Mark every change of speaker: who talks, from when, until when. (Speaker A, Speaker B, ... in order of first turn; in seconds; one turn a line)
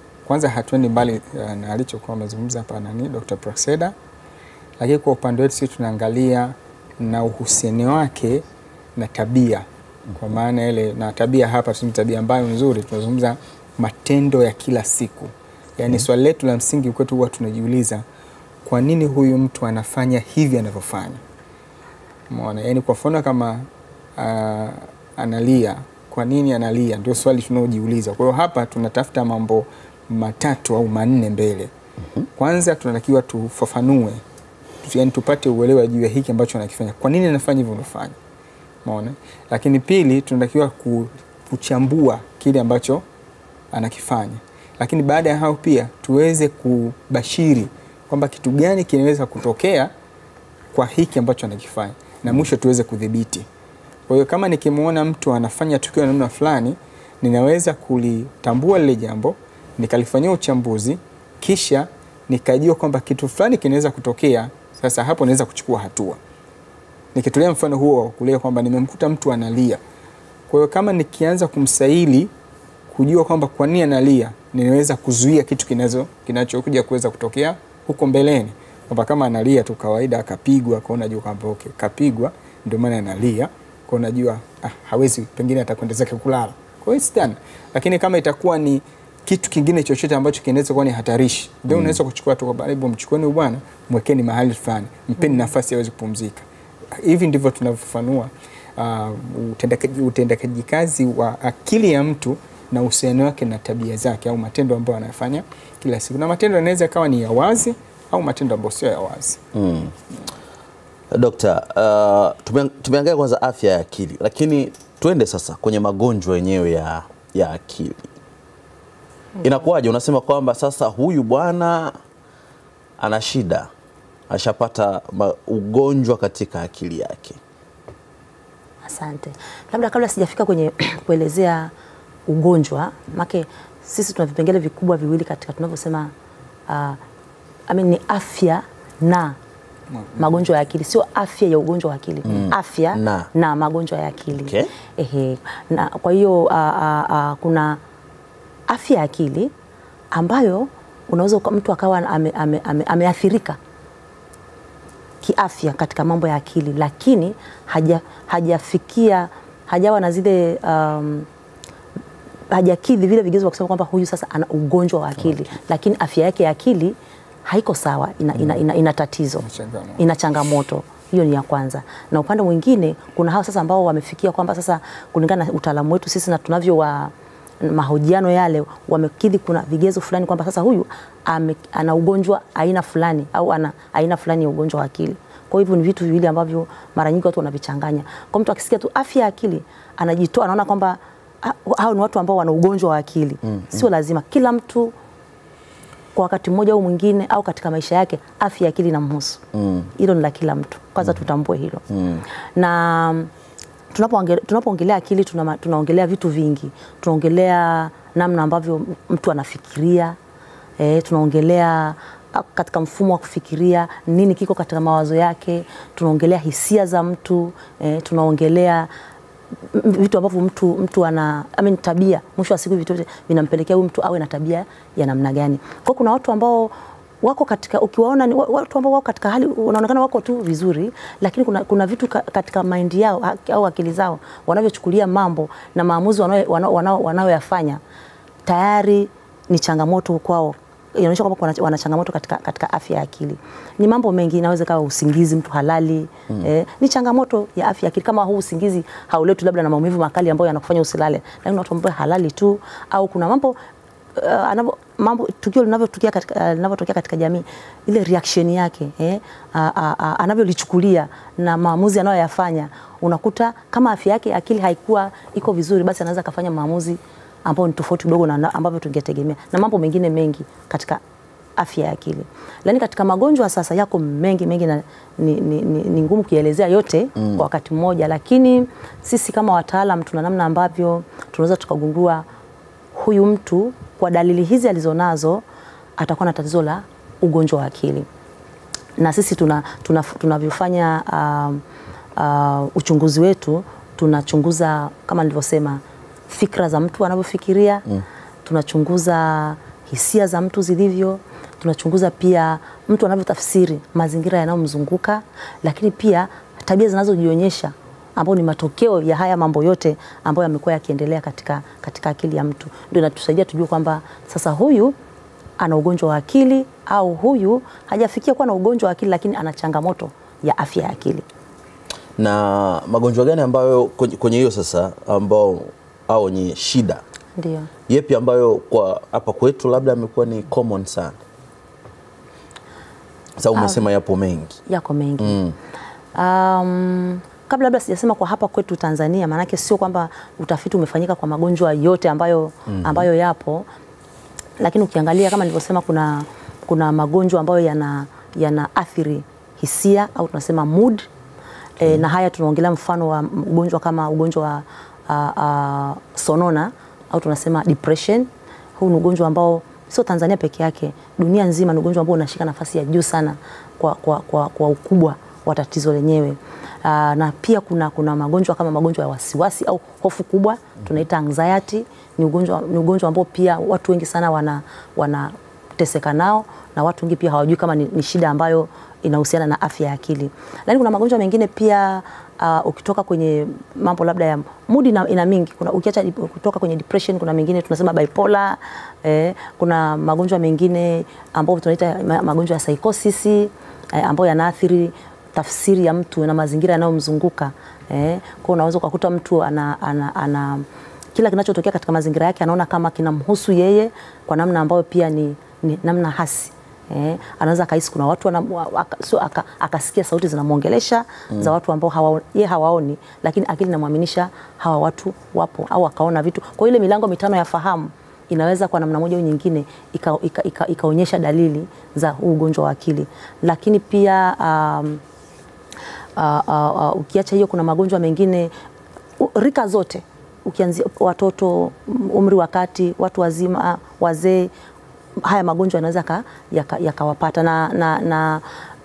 Speaker A: 0.2-4.0
Speaker A: 4.8-8.4
Speaker A: 9.0-18.0
Speaker A: 18.6-21.2
Speaker A: 22.3-31.7
Speaker A: 32.4-34.2
Speaker A: 34.8-38.2
Speaker A: 38.9-43.0
Speaker A: 43.7-49.9
Speaker A: 50.7-53.5
Speaker A: 54.1-66.2
Speaker A: 67.1-69.8
Speaker A: 70.5-72.3
Speaker A: 72.9-109.4
Speaker B: 91.7-92.0
Speaker B: 109.5-109.9
Speaker B: 111.1-118.1
Speaker B: 119.4-121.9
Speaker B: 123.0-123.7
Speaker B: 124.3-127.4
Speaker C: 128.8-131.7
Speaker C: 132.3-136.1
Speaker C: 136.7-137.0
Speaker C: 137.7-139.4
Speaker A: 139.9-140.3
Speaker C: 140.2-147.8
Speaker B: 142.3-143.3
Speaker B: 144.4-144.7
Speaker C: 148.7-149.5
Speaker C: 150.1-153.6
Speaker C: 155.2-161.3
Speaker C: 162.5-169.4
Speaker A: 169.4-170.0
Speaker C: 170.0-194.9
Speaker C: 196.1-199.4
Speaker B: 199.5-199.9
Speaker C: 199.9-201.8
Speaker B: 201.9-202.2
Speaker C: 202.6-203.3
Speaker C: 203.9-210.2
Speaker C: 210.8-218.9
Speaker C: 219.7-237.8
Speaker C: 238.4-253.6
Speaker C: 254.2-271.0
Speaker C: 271.6-282.2
Speaker C: 282.9-285.4
Speaker C: 286.0-288.1
Speaker C: 289.0-291.6
Speaker C: 292.2-297.9
Speaker C: 298.4-315.0
Speaker C: 315.6-321.2
Speaker B: 322.2-327.0
Speaker C: 327.4-327.7
Speaker B: 327.9-331.2
Speaker B: 333.4-334.6
Speaker C: 333.5-333.8
Speaker C: 334.7-335.4
Speaker B: 335.2-335.5
Speaker C: 336.1-343.7
Speaker B: 342.7-343.0
Speaker C: 344.6-351.1
Speaker C: 351.8-425.0
Speaker C: 426.2-428.5
Speaker C: 429.2-434.5
Speaker C: 435.2-438.4